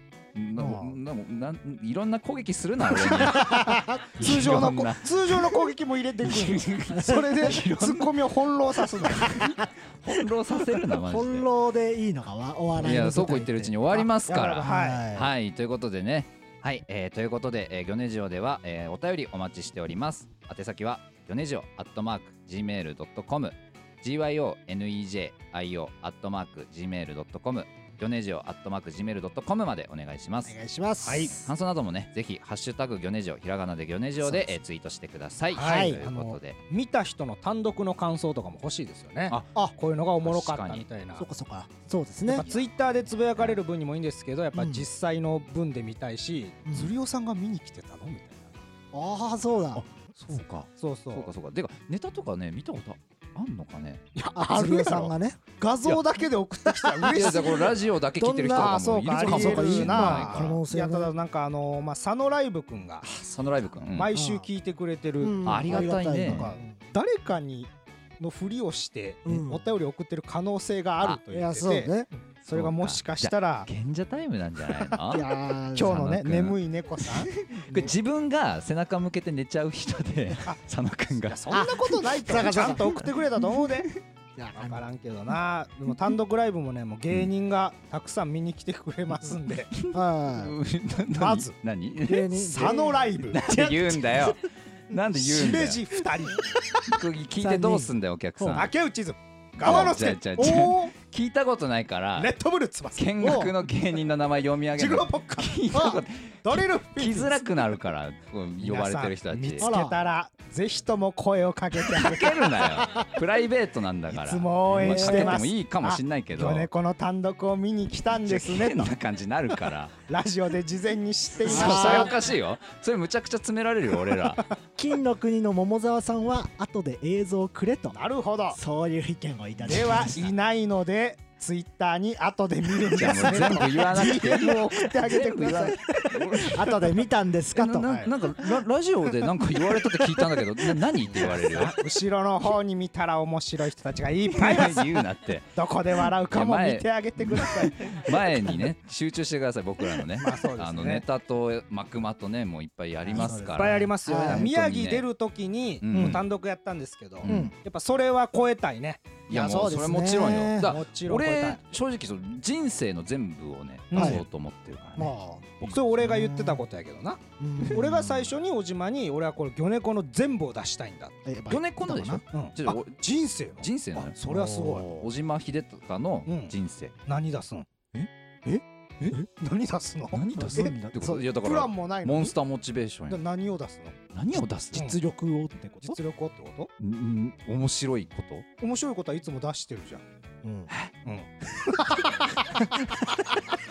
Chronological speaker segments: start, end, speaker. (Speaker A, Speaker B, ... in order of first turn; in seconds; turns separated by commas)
Speaker A: 0.3-5.6, Speaker B: 0.6-1.0, Speaker B: 3.0-4.2, Speaker C: 3.0-9.5, Speaker A: 6.2-8.2, Speaker A: 9.1-11.5, Speaker B: 9.2-10.2, Speaker B: 10.7-15.3, Speaker A: 12.8-30.6, Speaker C: 14.3-15.1, Speaker B: 30.4-31.5, Speaker C: 31.0-31.4, Speaker A: 31.4-36.6, Speaker C: 35.5-41.3, Speaker B: 35.6-36.0, Speaker A: 39.3-39.5, Speaker A: 40.2-40.9, Speaker B: 41.1-42.5, Speaker C: 42.2-48.5, Speaker B: 44.5-44.9, Speaker B: 46.6-46.9, Speaker B: 48.9-49.8, Speaker A: 49.7-54.0, Speaker C: 50.8-51.3, Speaker C: 54.1-57.8, Speaker B: 54.3-56.0, Speaker B: 56.6-57.5, Speaker A: 57.1-60.6, Speaker B: 58.2-61.1, Speaker C: 58.5-63.0, Speaker A: 63.0-64.1, Speaker C: 63.9-73.7, Speaker B: 64.1-64.5, Speaker B: 65.2-66.7, Speaker A: 65.4-66.5, Speaker B: 69.2-69.7, Speaker B: 71.3-72.1, Speaker A: 72.5-76.6, Speaker B: 75.0-76.0, Speaker C: 75.7-77.3, Speaker A: 77.2-81.5, Speaker B: 77.7-78.0, Speaker C: 81.1-83.9, Speaker B: 81.5-83.0, Speaker B: 84.4-84.8, Speaker C: 84.5-89.7, Speaker A: 89.7-92.7, Speaker B: 89.9-90.6, Speaker C: 91.1-91.5, Speaker B: 92.0-93.1, Speaker C: 92.3-94.3, Speaker A: 93.2-95.9, Speaker C: 95.1-96.4, Speaker B: 96.4-96.8, Speaker A: 96.9-98.7, Speaker B: 97.4-98.7, Speaker C: 98.5-100.9, Speaker A: 99.6-102.3, Speaker C: 102.2-103.5, Speaker A: 103.0-109.7, Speaker B: 103.2-103.5, Speaker C: 104.8-107.4, Speaker C: 108.6-112.8, Speaker B: 109.6-110.0, Speaker A: 111.9-116.7, Speaker C: 114.1-118.9, Speaker B: 114.7-115.4, Speaker A: 118.3-119.9, Speaker C: 119.6-122.2, Speaker B: 121.4-122.2, Speaker A: 121.4-124.4, Speaker B: 124.8-128.0, Speaker C: 127.9-128.6, Speaker B: 128.5-130.3, Speaker C: 129.7-136.8, Speaker A: 132.9-136.9, Speaker B: 133.3-133.8, Speaker B: 136.5-138.1, Speaker A: 137.5-141.8, Speaker C: 140.8-148.2, Speaker A: 144.3-145.5, Speaker A: 146.0-155.0, Speaker C: 150.1-151.0, Speaker B: 153.1-154.5, Speaker C: 153.2-159.2, Speaker A: 155.8-156.2, Speaker B: 155.9-156.2, Speaker A: 157.2-157.5, Speaker B: 157.2-157.5, Speaker A: 159.3-165.7, Speaker B: 159.3-160.7, Speaker C: 160.6-161.6, Speaker C: 163.9-164.2, Speaker B: 163.9-164.2, Speaker B: 164.9-166.6, Speaker C: 165.7-171.2, Speaker B: 167.4-168.3, Speaker B: 171.2-172.2, Speaker A: 171.5-173.0, Speaker C: 172.3-175.0, Speaker A: 173.6-174.2, Speaker B: 174.2-175.1, Speaker A: 174.8-176.9, Speaker C: 176.2-176.5, Speaker C: 177.1-177.7, Speaker C: 179.2-180.7, Speaker A: 180.1-183.2, Speaker B: 180.3-181.2, Speaker C: 181.4-182.3, Speaker C: 183.1-184.0, Speaker A: 184.1-184.9, Speaker B: 184.7-186.0, Speaker C: 185.8-186.7, Speaker A: 186.8-188.4, Speaker C: 188.6-190.0, Speaker B: 190.4-190.7, Speaker C: 191.0-193.3, Speaker B: 191.8-193.4